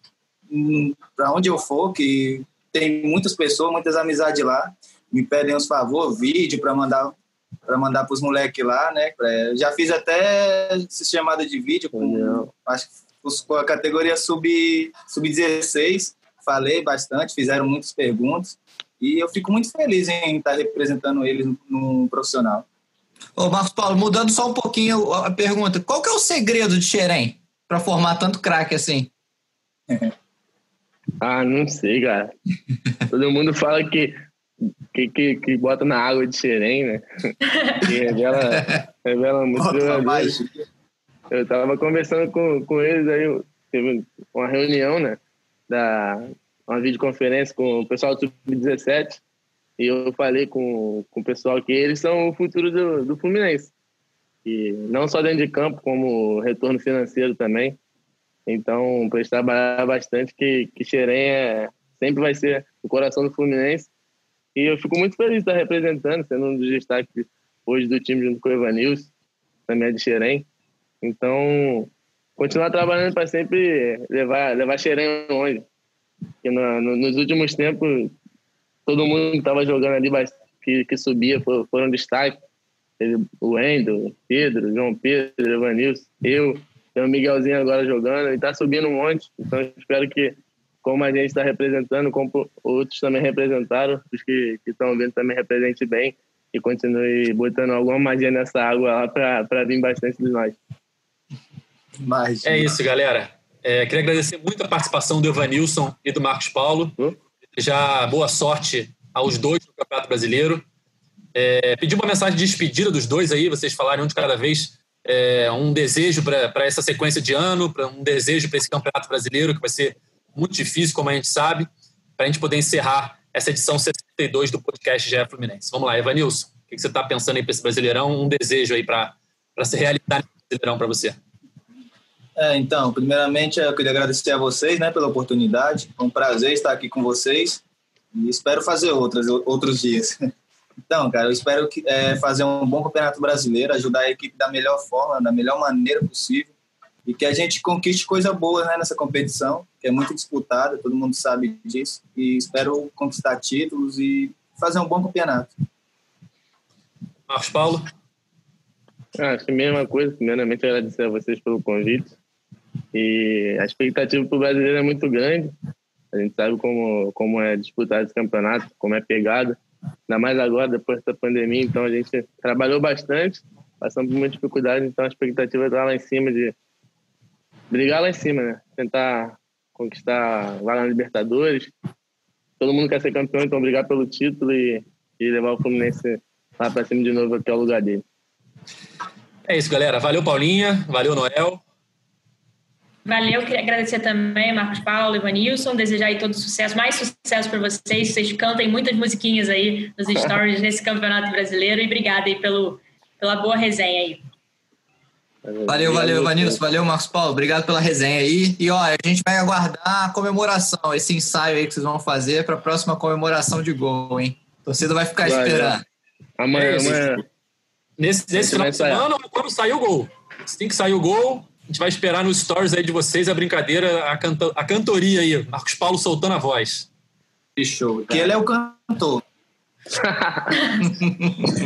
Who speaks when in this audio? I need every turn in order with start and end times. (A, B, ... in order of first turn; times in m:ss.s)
0:00.5-0:07.2 A
0:07.7-0:22.7 A
0:11.9-0:12.5 B
0:23.4-0:29.1 C
0:31.2-0:32.3 B
0:33.1-0:34.2 B
0:34.9-0:40.4 B
0:37.5-0:37.8 D
0:39.6-0:40.5 A
0:41.3-0:49.2 B
0:49.8-0:53.7 B
0:54.4-0:57.8 B
0:58.5-1:03.9 B
1:04.6-1:09.1 B
1:09.7-1:10.5 B
1:11.0-1:15.6 B
1:16.4-1:18.2 B
1:18.9-1:22.4 B
1:23.0-1:40.6 B
1:42.0-1:42.8 A
1:42.4-1:47.0 E
1:47.5-1:50.6 E
1:51.4-2:11.2 E
2:12.4-2:17.6 A
2:18.1-2:20.2 A
2:20.9-2:26.5 A
2:27.1-2:35.5 A
2:37.3-2:37.9 E
2:39.2-2:42.1 B
2:42.9-2:45.5 B
2:46.1-2:56.6 B
2:57.7-3:01.7 B
3:02.6-3:08.0 B
3:09.5-3:11.6 E
3:13.1-3:24.2 D
3:25.4-3:26.6 B
3:25.7-3:35.8 C
3:35.2-3:35.8 B
3:36.4-3:37.2 B
3:36.5-3:37.2 E
3:38.0-3:46.9 E
3:38.4-3:39.1 B
3:47.6-3:49.2 A
3:49.9-3:50.5 B